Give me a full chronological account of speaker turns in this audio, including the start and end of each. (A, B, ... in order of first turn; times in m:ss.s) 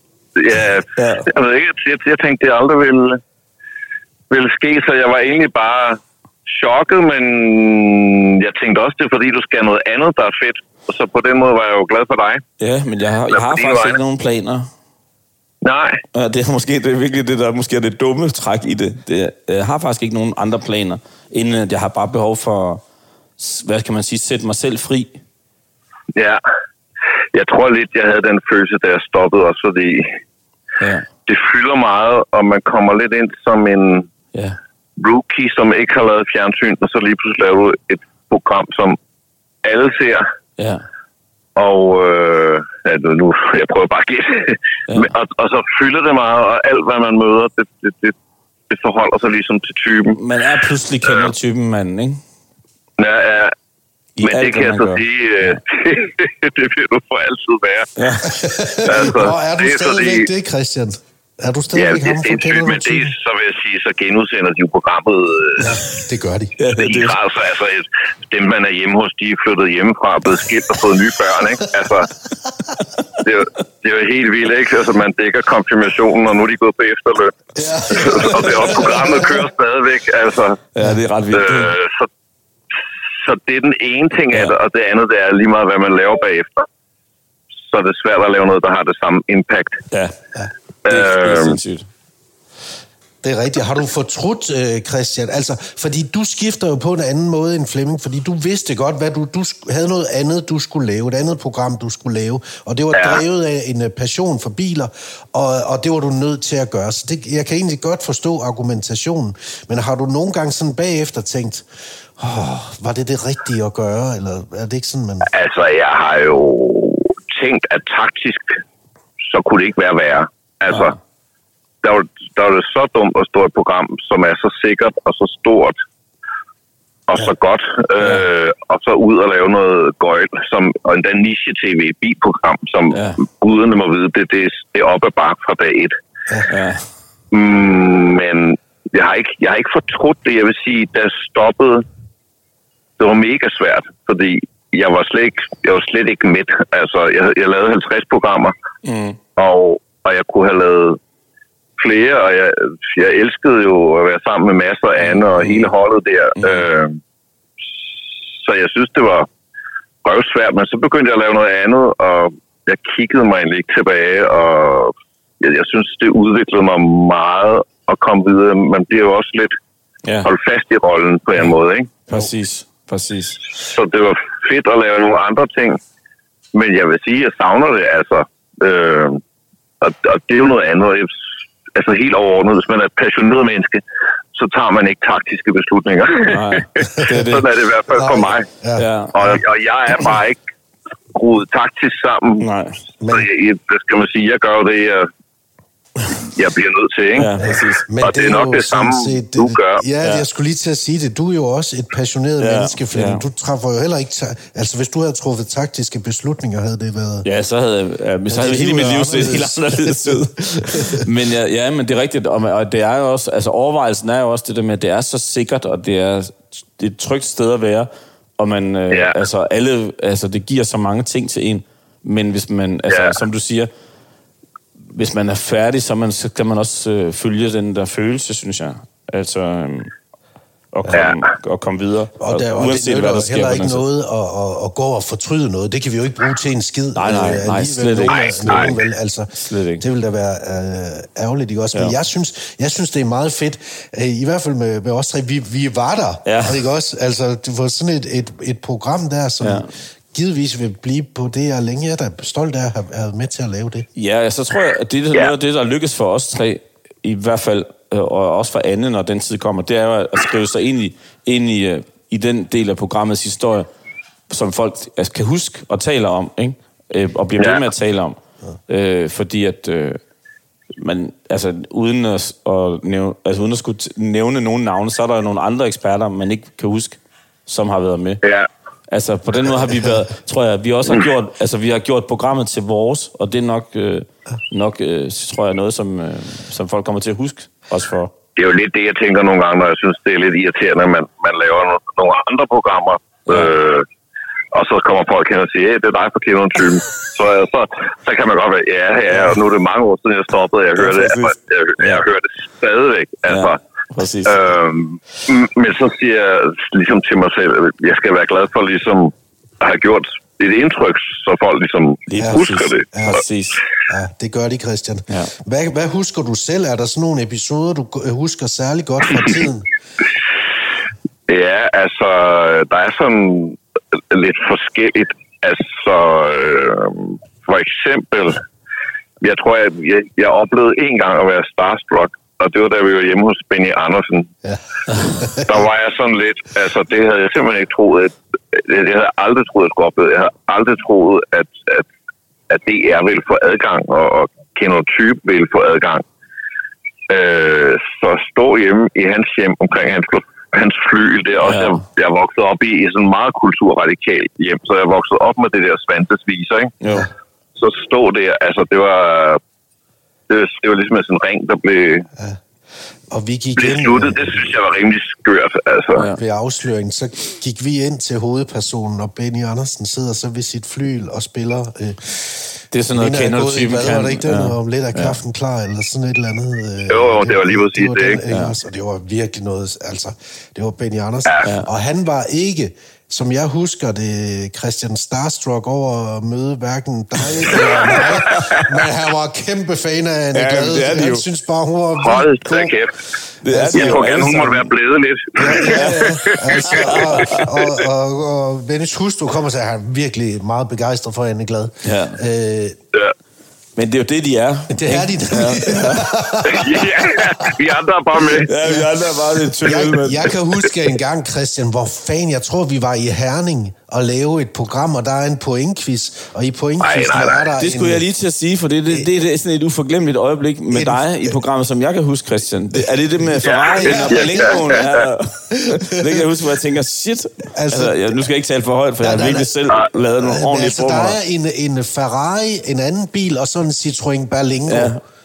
0:00.4-0:03.2 A
0:01.0-0:01.3 B
0:04.3-0:12.4 A
0:12.6-0:14.7 B
0:13.3-0:14.0 A
0:15.6-0:16.0 A
0:16.1-0:22.8 B
0:23.4-0:25.2 B
0:26.1-0:26.4 A
0:27.3-0:30.2 A
0:30.8-0:31.1 B
0:31.2-0:34.1 A
0:35.0-0:39.0 A
0:39.6-0:40.2 A
0:40.6-0:40.8 B
0:41.6-0:48.1 A
0:48.7-0:50.2 A
0:50.1-0:52.2 B
0:51.0-0:51.3 A
0:53.0-0:53.5 A
0:54.2-0:55.6 B
0:54.2-0:57.9 A
0:58.0-0:58.4 B
0:58.2-1:03.1 C
0:58.8-1:00.3 A
1:01.7-1:05.8 A
1:05.6-1:06.5 C
1:06.6-1:07.2 B
1:06.8-1:12.1 A
1:13.2-1:17.4 A
1:17.6-1:19.4 C
1:17.9-1:20.6 A
1:20.7-1:21.7 B
1:21.3-1:22.1 A
1:23.2-1:26.7 A
1:27.6-1:29.8 A
1:29.9-1:30.2 B
1:30.8-1:31.6 A
1:30.8-1:31.9 B
1:33.2-1:51.6 C
1:42.9-1:43.2 A
1:52.2-1:55.3 C
1:55.3-1:58.6 A
1:59.2-2:01.0 A
2:01.8-2:05.7 A
2:07.1-2:16.0 A
2:12.9-2:13.2 B
2:16.5-2:16.8 B
2:17.3-2:21.8 A
2:23.0-2:28.5 A
2:28.8-2:29.2 B
2:29.4-2:31.0 A
2:31.8-2:37.0 A
2:35.0-2:35.7 B
2:36.4-2:36.6 B
2:38.4-2:39.3 A
2:40.0-2:49.5 A
2:50.2-2:51.9 A
2:52.1-2:53.4 B
2:53.6-2:55.8 A
2:56.5-2:59.2 A
2:59.8-3:01.1 A
3:01.7-3:03.8 A
3:04.3-3:08.5 A
3:06.3-3:07.4 B
3:07.9-3:09.4 C
3:08.8-3:09.3 B
3:09.1-3:10.4 A
3:11.1-3:12.4 A
3:12.4-3:12.8 B
3:13.0-3:13.3 C
3:13.1-3:15.1 A
3:16.1-3:17.3 A
3:17.1-3:17.8 B
3:17.4-3:27.2 C
3:18.0-3:19.8 A
3:22.4-3:23.2 B
3:27.2-3:43.7 B
3:28.3-3:31.1 C
3:38.9-3:39.2 A
3:42.9-3:43.1 A
3:44.9-3:49.9 B
3:50.7-3:53.8 B
3:50.9-3:51.2 A
3:52.2-4:13.9 C
3:56.9-3:58.8 B
3:58.1-3:58.8 A
3:59.3-3:59.8 B
4:06.2-4:06.6 B
4:09.4-4:09.7 B
4:14.0-4:23.7 B
4:24.3-4:30.0 B
4:30.8-4:38.2 B
4:38.2-4:38.5 A
4:38.9-4:48.1 B
4:48.4-4:53.9 A
4:54.5-5:03.6 A
5:00.8-5:02.0 B
5:03.3-5:04.4 B
5:04.2-5:12.9 A
5:12.1-5:13.6 B
5:12.2-5:13.2 C
5:13.9-5:19.7 C
5:21.3-5:23.6 A
5:24.1-5:28.4 A
5:29.2-5:34.3 A
5:34.4-5:35.5 C
5:34.9-5:35.2 B
5:35.4-5:41.9 A
5:42.5-5:46.0 A
5:47.1-5:56.8 A
5:51.4-5:51.8 B
5:56.8-5:57.1 B
5:57.6-5:59.4 A
6:00.3-6:02.1 A
6:03.1-6:04.5 C
6:03.6-6:06.1 A
6:06.2-6:32.7 C
6:12.7-6:15.2 B
6:16.9-6:18.2 A
6:18.3-6:18.6 B
6:21.4-6:21.7 B
6:27.6-6:28.7 A
6:30.3-6:31.2 B
6:32.0-6:32.9 A
6:33.4-6:34.7 B
6:33.5-6:34.2 C
6:33.7-6:37.7 A
6:35.4-6:42.8 C
6:35.6-6:37.4 B
6:41.8-6:42.2 B
6:43.8-6:46.1 B
6:44.7-6:47.6 C
6:46.4-6:48.5 A
6:48.4-6:50.3 B
6:48.4-6:48.9 C
6:49.6-6:58.0 C
6:56.8-6:57.5 A
6:57.6-7:11.2 B
7:00.7-7:01.3 C
7:02.7-7:04.8 C
7:03.4-7:05.0 A
7:05.5-7:06.3 C
7:07.5-7:08.2 C
7:09.0-7:09.5 C
7:10.2-7:14.9 C
7:14.7-7:15.0 B